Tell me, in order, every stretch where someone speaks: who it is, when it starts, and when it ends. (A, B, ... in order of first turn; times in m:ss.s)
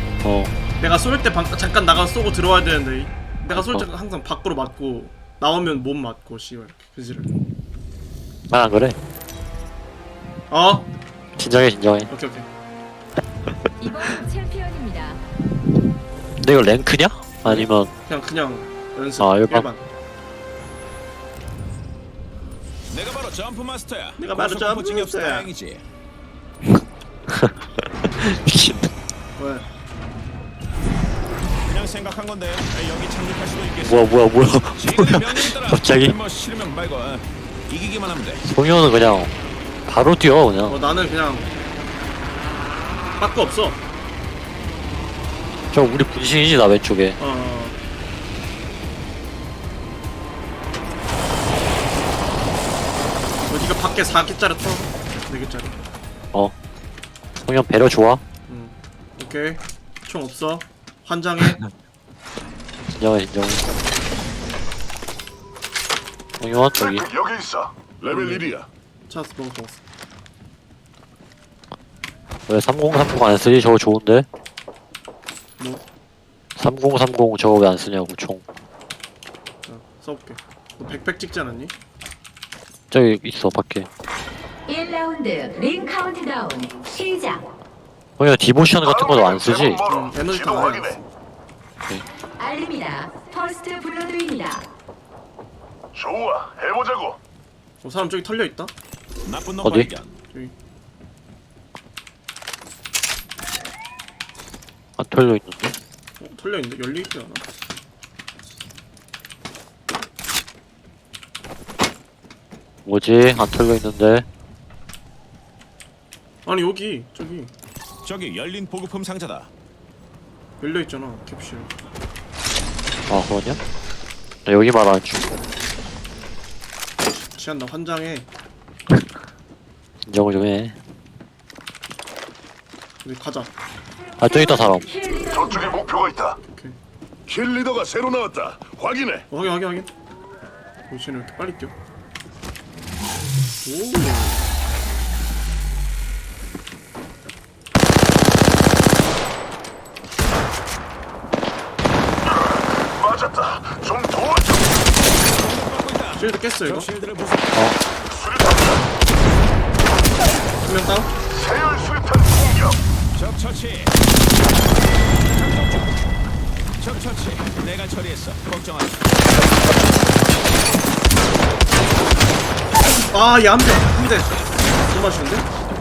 0:00.2-0:00.5 A
0:00.8-0:07.3 B
0:03.5-0:03.9 A
0:08.5-0:09.0 A
0:10.5-0:10.8 B
0:11.4-0:12.1 A
0:12.1-0:12.5 B
0:13.5-0:14.1 A
0:13.8-0:15.2 C
0:16.4-0:17.9 A
0:17.4-0:19.8 B
0:19.2-0:19.7 A
0:22.9-0:25.8 D
0:24.2-0:25.5 B
0:27.3-0:28.9 A
0:29.4-0:29.7 B
0:31.7-0:34.2 D
0:33.8-0:36.2 A
0:34.8-0:38.4 D
0:38.4-0:39.3 A
0:39.9-0:40.8 A
0:40.7-0:41.5 B
0:43.2-0:43.8 B
0:45.7-0:47.2 A
0:47.2-0:47.8 B
0:53.4-0:55.8 B
0:57.4-0:58.2 A
0:58.5-1:01.6 B
1:02.9-1:03.7 A
1:06.4-1:07.1 A
1:06.8-1:08.7 E
1:08.1-1:08.5 B
1:09.1-1:09.8 B
1:12.5-1:14.3 A
1:15.6-1:15.8 B
1:16.6-1:18.4 A
1:19.6-1:21.7 B
1:22.9-1:23.9 A
1:24.7-1:27.4 C
1:28.2-1:29.8 A
1:28.8-1:31.0 E
1:29.9-1:31.0 B
1:32.4-1:34.6 C
1:35.9-1:37.2 E
1:37.8-1:38.7 B
1:39.2-1:40.1 D
1:39.6-1:39.9 A
1:45.0-1:45.8 A
1:46.2-1:47.4 B
1:52.9-1:54.2 A
1:56.4-1:57.5 B
1:58.0-1:59.5 D
2:00.6-2:01.7 B
2:03.1-2:03.6 A
2:04.4-2:05.3 A
2:07.0-2:08.3 B
2:10.1-2:10.7 A
2:13.0-2:13.5 B
2:14.2-2:15.0 A
2:15.2-2:16.4 E
2:16.4-2:16.8 B
2:17.3-2:19.2 E
2:19.3-2:19.9 B
2:20.9-2:21.7 B
2:23.6-2:24.5 B
2:32.4-2:34.6 E
2:35.2-2:37.6 D
2:36.1-2:36.9 B
2:38.1-2:38.8 E
2:40.6-2:41.1 B
2:41.3-2:42.8 E
2:43.1-2:44.0 D
2:45.1-2:46.0 D
2:46.8-2:49.0 D
2:52.8-2:55.5 B